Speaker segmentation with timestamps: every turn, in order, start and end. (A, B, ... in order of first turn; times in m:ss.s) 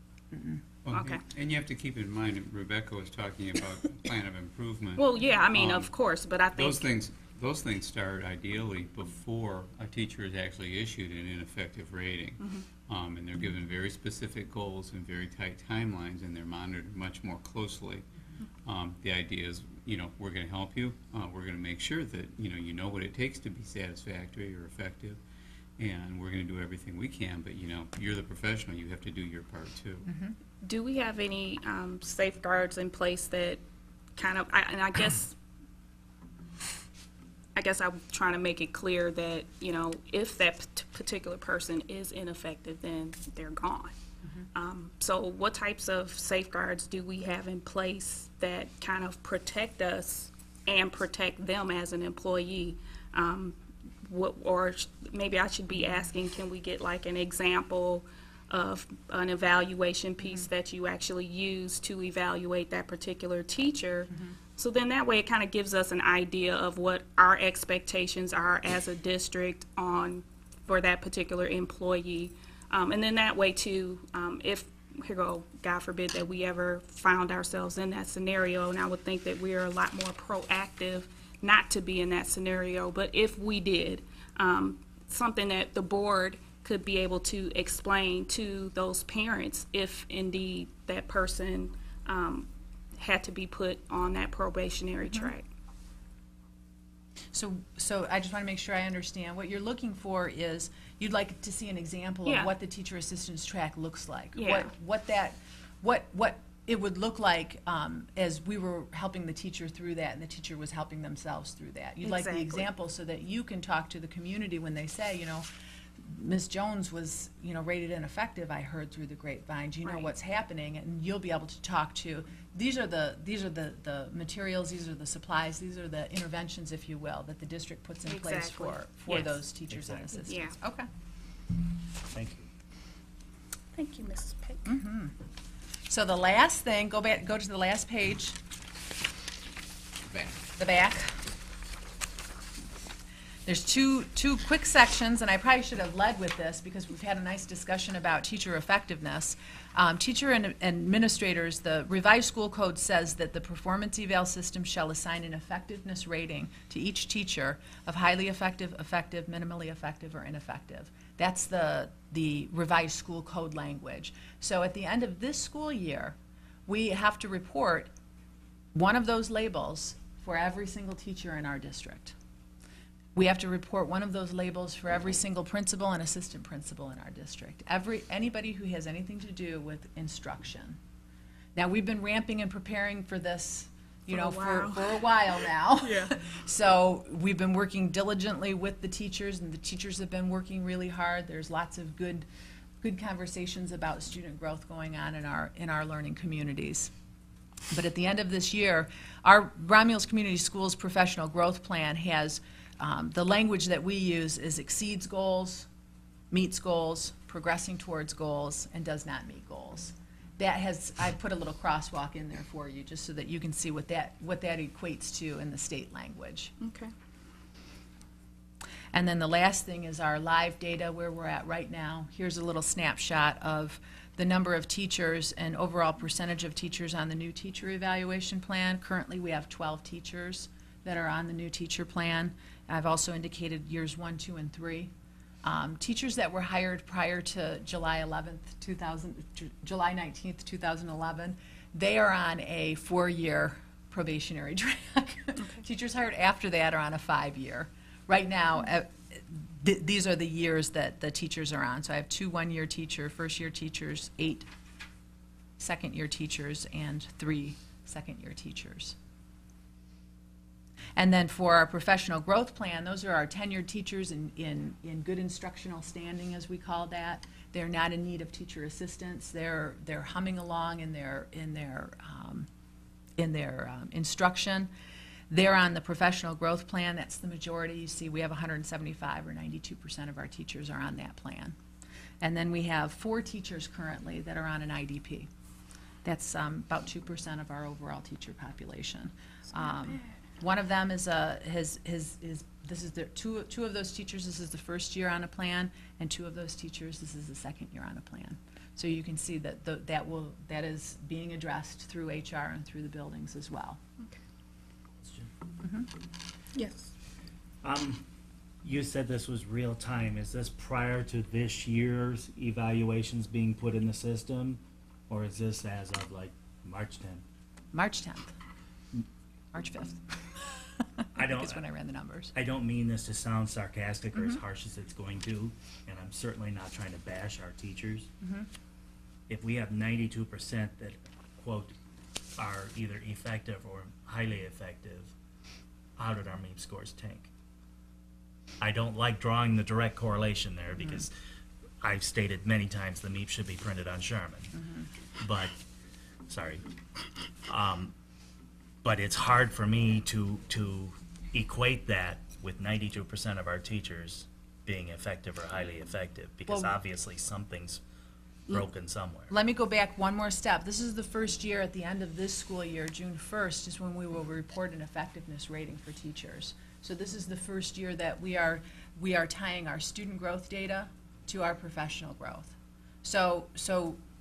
0:00.3-0:00.6 A
0:00.8-0:05.9 B
0:00.9-0:01.2 C
0:05.0-0:06.9 C
0:06.5-0:18.0 B
0:12.4-0:12.7 C
0:18.6-0:25.2 B
0:25.8-0:30.1 B
0:30.0-0:30.3 A
0:30.6-0:33.6 C
0:34.2-0:35.3 C
0:37.6-0:43.9 C
0:44.5-1:35.4 C
1:04.1-1:04.4 A
1:37.3-1:55.5 A
1:42.2-1:42.5 C
1:44.3-1:44.7 C
1:52.0-1:52.6 C
1:56.0-2:10.9 A
1:59.8-2:00.1 C
2:08.0-2:08.8 C
2:09.1-2:10.2 D
2:10.2-2:10.5 C
2:12.1-2:12.5 D
2:13.7-2:14.7 C
2:14.6-2:15.1 A
2:15.9-2:18.4 A
2:20.6-2:21.2 A
2:23.4-2:46.2 A
2:46.7-2:47.9 A
2:48.7-2:52.1 A
2:53.1-3:00.8 A
3:01.6-3:12.2 A
3:04.1-3:05.0 C
3:05.8-3:06.1 C
3:12.8-3:16.9 A
3:17.7-3:25.7 A
3:26.3-3:36.5 A
3:36.6-3:36.9 C
3:38.9-3:54.9 A
3:55.4-4:14.5 A
4:15.6-4:19.0 A
4:21.0-4:32.5 A
4:33.2-4:34.7 A
4:35.3-4:41.6 A
4:42.2-4:45.3 A
4:46.0-5:03.8 A
5:05.0-5:05.3 D
5:05.6-5:05.9 A
5:06.5-5:06.9 C
5:07.6-5:08.0 D
5:08.6-5:17.2 D
5:17.7-5:18.3 A
5:19.5-5:20.1 A
5:21.0-5:22.3 A
5:21.1-5:21.6 D
5:22.3-5:28.1 D
5:28.2-5:28.5 A
5:29.3-5:31.7 D
5:32.4-5:35.1 D
5:36.0-5:37.3 D
5:38.6-5:41.1 D
5:41.8-5:44.5 D
5:45.2-5:45.6 D
5:46.3-5:46.6 D
5:47.5-5:47.9 D
5:48.8-5:57.8 D
5:58.5-5:59.3 D
5:59.3-6:14.0 A